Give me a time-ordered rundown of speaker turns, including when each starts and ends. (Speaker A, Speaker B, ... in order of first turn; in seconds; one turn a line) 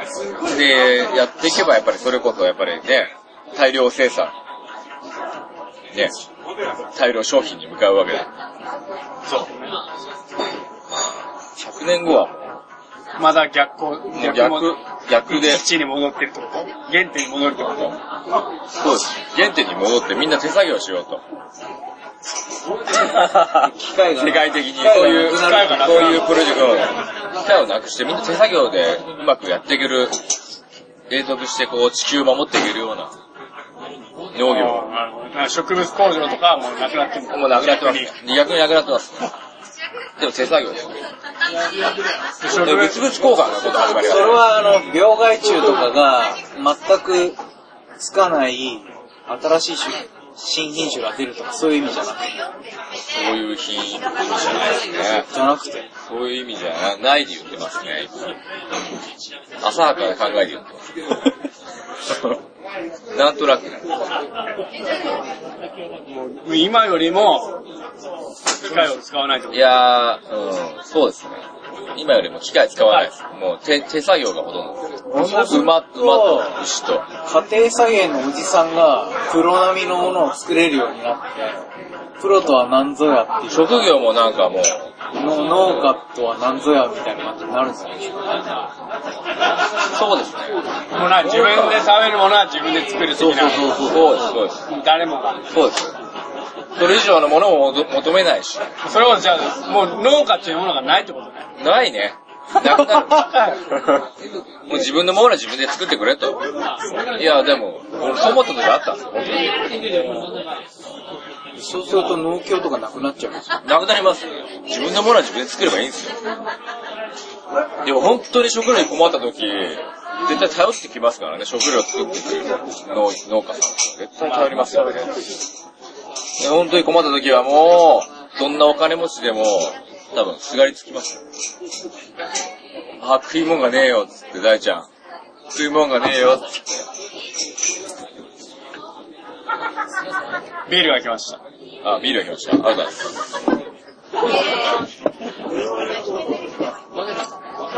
Speaker A: 0.4-4.3
Speaker A: 7.0-8.3
Speaker B: 9.3-9.7
Speaker A: 10.9-12.6
Speaker B: 13.2-18.0
Speaker A: 14.1-15.7
Speaker A: 18.8-21.2
Speaker A: 22.9-30.2
Speaker C: 23.6-26.2
Speaker B: 25.2-26.3
Speaker A: 31.1-33.1
Speaker A: 34.4-34.9
Speaker B: 34.5-38.1
Speaker A: 37.3-39.4
Speaker A: 40.2-41.0
Speaker B: 42.4-43.0
Speaker A: 42.6-44.5
Speaker C: 43.8-47.4
Speaker C: 48.0-52.5
Speaker A: 53.1-55.3
Speaker C: 55.3-55.9
Speaker A: 56.1-58.1
Speaker A: 59.6-60.9
Speaker A: 62.1-62.4
Speaker A: 63.1-63.8
Speaker B: 66.1-67.6
Speaker B: 68.6-69.7
Speaker A: 69.5-71.4
Speaker A: 72.0-77.1
Speaker C: 75.1-76.6
Speaker C: 77.2-81.6
Speaker C: 82.2-84.0
Speaker A: 83.5-84.9
Speaker C: 85.2-88.3
Speaker A: 89.9-90.6
Speaker B: 91.0-93.6
Speaker A: 91.2-91.9
Speaker A: 93.2-94.6
Speaker B: 94.7-95.5
Speaker A: 95.5-96.0
Speaker A: 96.8-98.7
Speaker B: 98.8-101.5
Speaker A: 101.6-104.1
Speaker B: 103.1-103.6
Speaker A: 104.7-106.4
Speaker A: 107.1-109.7
Speaker B: 110.0-110.2
Speaker C: 111.6-113.6
Speaker A: 113.6-116.2
Speaker A: 117.8-125.3
Speaker B: 124.2-125.0
Speaker A: 126.4-131.2
Speaker A: 133.0-134.9
Speaker A: 135.5-136.8
Speaker B: 140.7-141.4
Speaker A: 141.8-143.2